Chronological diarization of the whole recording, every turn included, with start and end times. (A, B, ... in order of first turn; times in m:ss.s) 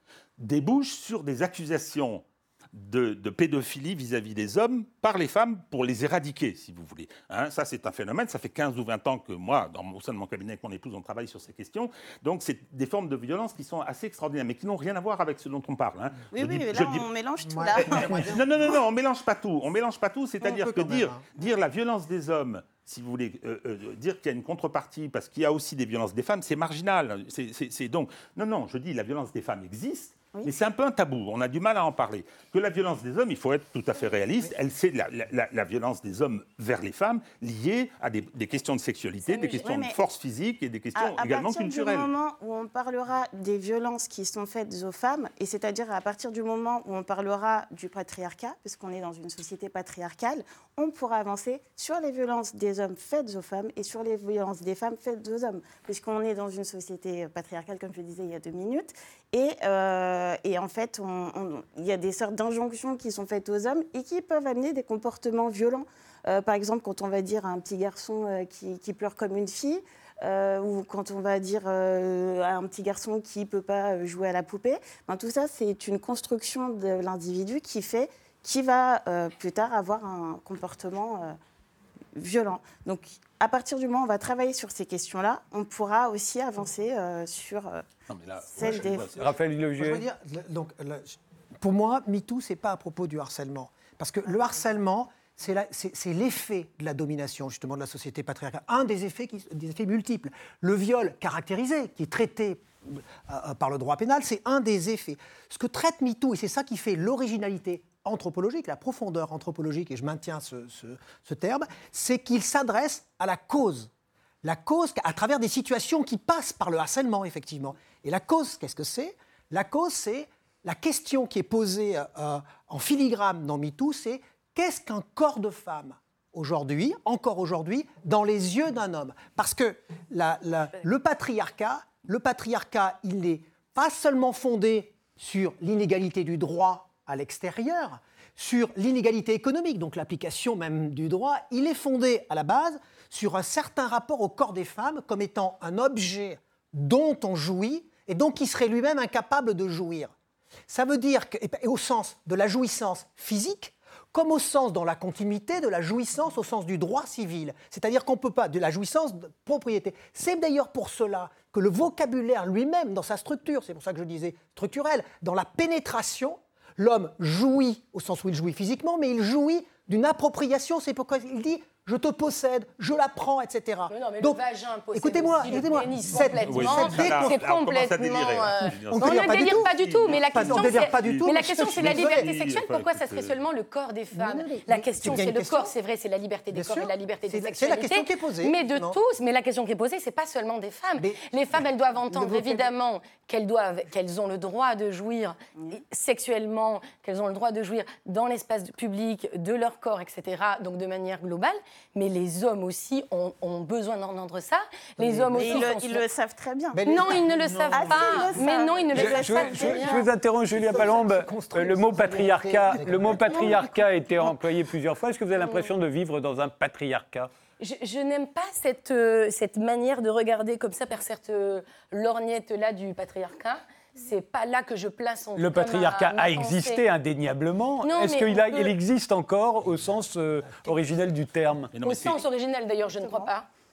0:00.4-0:17.1 A
0:16.3-0:18.4 B
0:17.4-0:18.4 C
0:17.7-0:42.1 A
0:20.4-0:21.2 C
0:39.2-0:40.0 B
0:41.0-1:21.3 B
1:22.1-1:27.9 B
1:28.1-1:29.3 A
1:28.5-1:29.1 B
1:28.6-1:29.0 C
1:29.1-1:30.0 D
1:29.8-1:53.9 C
1:54.4-2:30.1 C
2:30.7-2:54.4 C
2:53.9-3:26.0 E
2:54.9-2:57.4 C
2:56.4-3:03.4 A
2:58.8-2:59.7 C
3:00.3-3:02.3 C
3:04.1-3:05.7 C
3:06.5-3:09.0 C
3:11.0-3:11.2 C
3:12.1-3:12.7 C
3:25.0-3:25.7 C
3:25.4-3:27.2 B
3:26.7-3:28.3 C
3:26.8-3:30.1 E
3:27.7-3:28.2 A
3:27.7-3:30.1 B
3:28.9-3:37.3 D
3:30.5-3:33.6 C
3:33.1-3:33.6 B
3:33.4-3:33.7 E
3:35.4-3:35.7 E
3:37.6-3:46.8 E
3:45.4-3:51.7 D
3:47.8-3:48.8 E
3:51.7-3:52.2 A
3:51.8-3:53.5 E
3:52.9-3:53.3 B